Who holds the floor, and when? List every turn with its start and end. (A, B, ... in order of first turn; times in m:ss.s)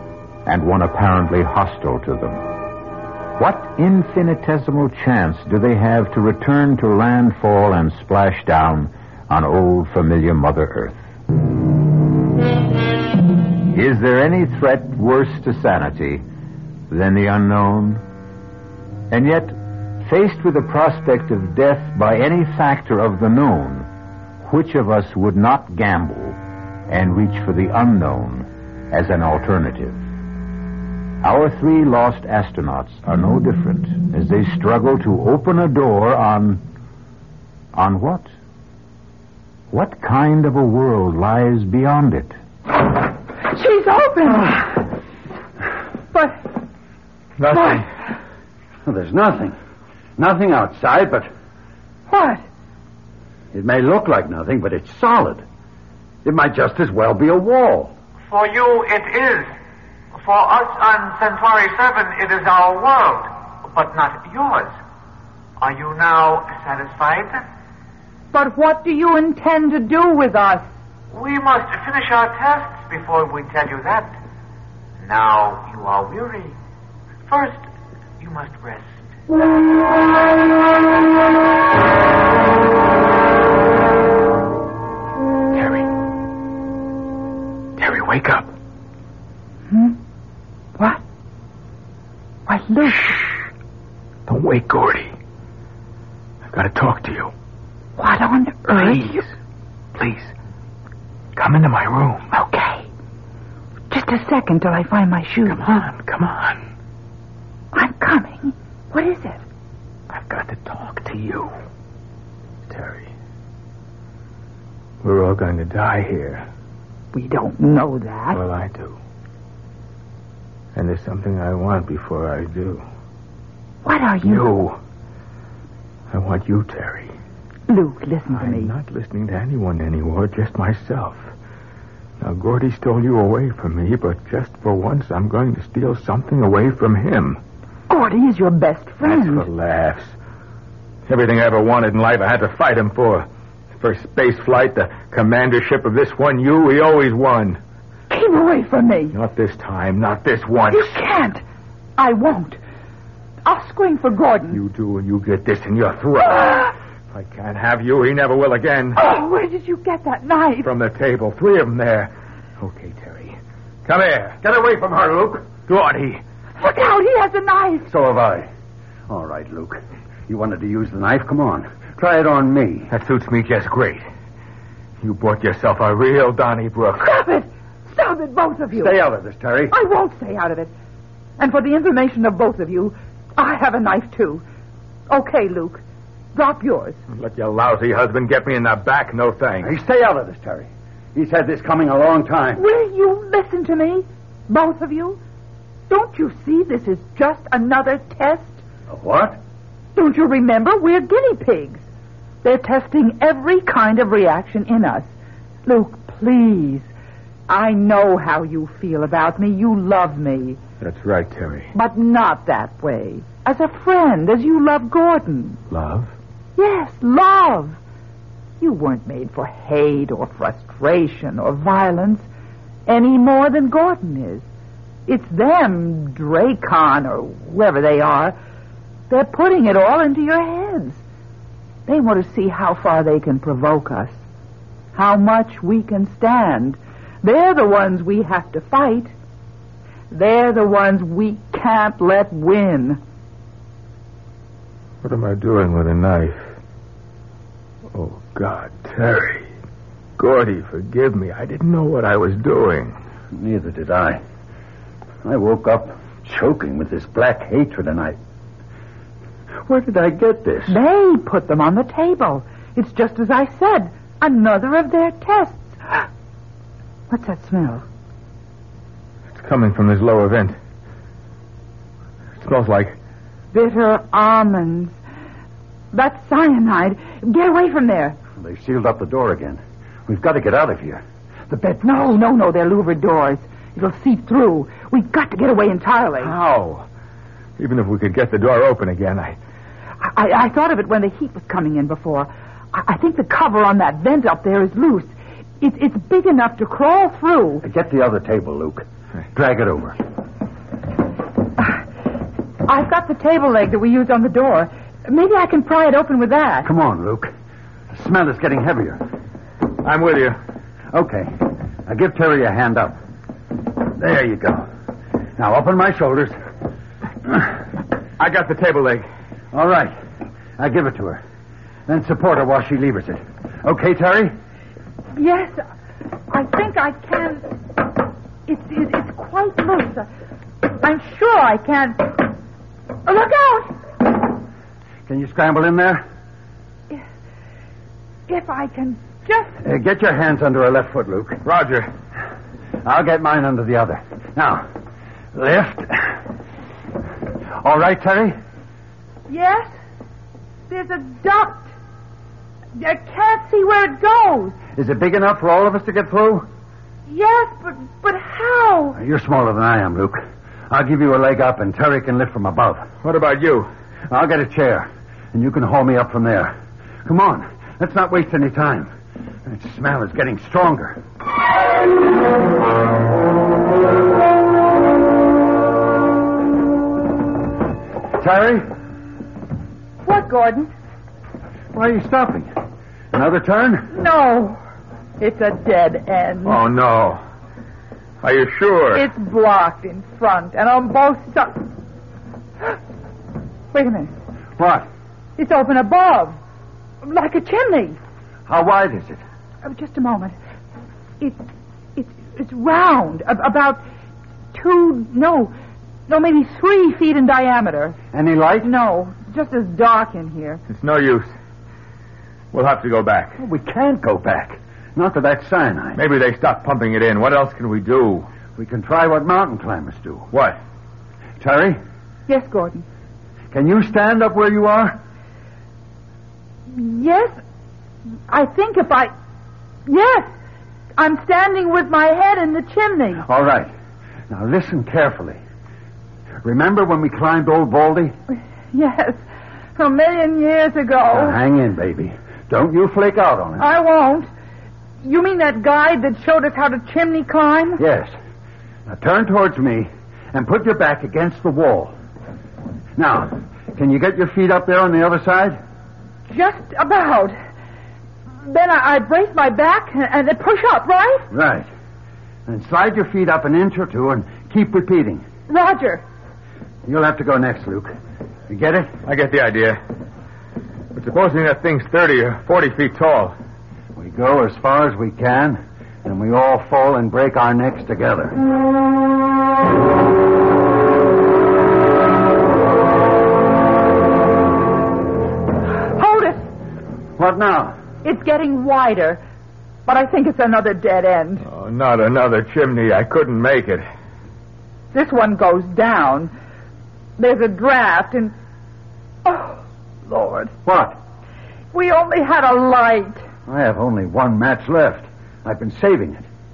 0:00.4-0:02.4 A
0:03.4-0:11.0 A
0:13.7-0:16.2 A
0:16.9-0:18.0 A
0:19.1-0:23.9 A
0:24.4-0:30.0 A
0:31.2-0:36.6 A
0:37.7-0:38.3 A
0:39.7-0:42.4 A
0:43.5-0:44.8 B
0:46.1-0:46.4 B
0:47.4-0:47.9 C
0:47.5-0:47.8 B
0:48.8-0:49.6 D
0:50.2-0:51.3 D
0:52.1-0:52.4 B
0:53.5-0:55.4 D
0:56.2-0:57.9 D
0:58.3-0:59.5 E
1:00.1-1:04.7 E
1:05.6-1:07.4 E
1:08.3-1:10.7 B
1:11.1-1:14.2 E
1:15.0-1:16.6 E
1:17.3-1:17.6 E
1:18.2-1:18.9 E
1:25.5-1:25.9 C
1:27.8-1:28.5 C
1:29.7-1:30.0 B
1:32.5-1:33.3 B
1:34.2-1:35.1 C
1:36.5-1:37.3 C
1:38.0-1:39.2 B
1:38.7-1:39.3 C
1:39.9-1:40.3 C
1:41.4-1:42.2 C
1:42.3-1:42.9 B
1:43.9-1:45.6 B
1:45.5-1:46.6 C
1:47.7-1:49.4 B
1:50.1-1:51.5 C
1:52.7-1:53.1 C
1:55.0-1:56.4 C
1:57.1-1:58.4 B
1:58.3-1:59.0 C
2:00.7-2:02.8 C
2:03.8-2:04.5 B
2:04.2-2:04.8 C
2:06.1-2:07.1 C
2:07.7-2:08.7 B
2:08.3-2:11.3 C
2:12.2-2:17.4 C
2:17.9-2:19.5 B
2:19.0-2:20.1 C
2:21.1-2:27.6 C
2:28.1-2:29.2 B
2:29.1-2:31.0 C
2:30.7-2:31.4 B
2:32.0-2:32.6 B
2:33.4-2:34.6 B
2:34.5-2:39.0 C
2:39.0-2:40.7 B
2:40.6-2:44.4 C
2:44.4-2:45.5 D
2:45.6-2:46.2 C
2:46.6-2:47.9 B
2:47.9-2:48.5 D
2:49.1-2:52.9 D
2:52.9-2:54.1 C
2:55.0-2:57.1 C
2:57.0-2:59.0 B
2:58.7-2:59.7 D
2:59.7-3:00.7 B
3:01.4-3:04.4 B
3:05.1-3:05.8 B
3:06.3-3:07.0 B
3:07.1-3:09.7 C
3:09.6-3:12.6 D
3:12.6-3:15.2 B
3:15.9-3:18.6 B
3:18.9-3:19.4 D
3:19.9-3:21.8 B
3:22.4-3:25.1 B
3:25.6-3:26.9 B
3:27.5-3:30.6 B
3:30.8-3:31.7 C
3:31.7-3:35.6 B
3:35.7-3:36.1 C
3:36.6-3:37.8 B
3:38.6-3:42.2 B
3:42.9-3:44.4 B
3:45.1-3:48.4 B
3:49.1-3:51.0 B
3:51.9-3:54.2 B
3:54.9-3:59.1 B
4:00.1-4:03.0 B
4:05.0-4:06.5 C
4:07.9-4:09.5 C
4:10.2-4:13.0 C
4:13.3-4:14.2 D
4:15.2-4:18.2 D
4:19.7-4:20.7 D
4:20.7-4:26.0 B
4:27.1-4:27.8 B
4:29.3-4:30.6 C
4:32.4-4:33.0 C
4:33.5-4:34.9 B
4:35.9-4:38.2 B
4:38.4-4:41.8 D
4:41.8-4:46.3 B
4:46.2-4:46.8 C
4:47.6-4:49.4 C
4:50.0-4:57.6 B
4:57.6-5:00.0 D
5:02.6-5:06.7 B
5:06.6-5:07.3 D
5:07.9-5:09.0 D
5:09.8-5:10.4 C
5:10.9-5:11.3 D
5:11.8-5:13.0 D
5:13.9-5:14.6 D
5:15.4-5:16.3 D
5:18.2-5:19.0 C
5:19.5-5:19.9 D
5:20.6-5:21.2 D
5:21.9-5:24.3 D
5:25.2-5:25.6 B
5:26.3-5:27.5 B
5:28.5-5:30.1 B
5:30.8-5:32.3 B
5:33.0-5:33.8 B
5:35.1-5:36.0 D
5:38.3-5:39.5 B
5:39.6-5:41.4 D
5:41.4-5:41.9 C
5:42.8-5:44.6 D
5:45.3-5:46.2 D
5:47.6-5:48.3 D
5:49.3-5:49.7 B
5:50.7-5:51.7 B
5:52.8-5:54.6 B
5:54.7-5:56.5 D
5:57.1-5:59.0 B
5:59.0-6:02.9 D
6:03.0-6:03.7 C
6:04.1-6:06.5 D
6:07.0-6:08.9 D
6:09.4-6:11.0 D
6:18.2-6:18.7 D
6:20.0-6:20.7 B
6:21.7-6:22.5 D
6:23.1-6:23.9 D
6:23.9-6:24.6 B
6:25.2-6:26.6 B
6:26.4-6:27.2 C
6:28.2-6:29.0 C
6:28.9-6:31.6 B
6:33.7-6:34.1 B
6:34.6-6:34.9 D
6:35.4-6:36.4 B
6:37.0-6:38.0 B
6:38.5-6:39.2 D
6:39.6-6:40.3 B
6:41.2-6:43.8 B
6:44.5-6:45.5 B
6:46.1-6:48.0 B
6:48.1-6:48.7 D
6:48.6-6:50.6 B
6:50.7-6:51.3 C
6:52.5-6:53.4 C
6:53.4-6:56.0 D
6:56.0-6:58.3 C
6:58.6-7:00.3 D
7:00.3-7:00.6 C
7:01.4-7:01.8 D
7:02.3-7:02.8 B
7:03.5-7:05.0 D
7:06.7-7:07.4 B
7:08.3-7:09.1 B
7:09.8-7:10.3 B
7:11.0-7:13.2 B
7:13.2-7:13.7 D
7:14.3-7:15.4 D
7:16.4-7:18.1 D
7:18.7-7:19.2 B
7:19.8-7:21.4 B
7:21.1-7:23.6 D
7:23.6-7:24.3 B
7:25.0-7:27.8 B
7:27.8-7:28.1 D
7:28.9-7:31.9 D
7:33.0-7:35.6 D
7:36.3-7:37.4 B
7:38.4-7:41.3 B
7:41.3-7:41.7 D
7:42.5-7:45.2 D
7:45.5-7:46.0 B
7:46.8-7:47.9 D
7:48.5-7:48.9 D
7:49.0-7:49.8 C
7:50.9-7:53.3 C
7:54.0-7:58.4 D
8:05.9-8:06.4 B
8:07.2-8:07.8 D
8:08.0-8:09.2 B
8:09.8-8:11.4 B
8:11.4-8:13.9 C
8:14.9-8:16.3 B
8:17.2-8:18.3 B
8:19.2-8:20.5 B
8:20.6-8:21.0 D
8:21.7-8:23.2 B
8:23.5-8:26.2 D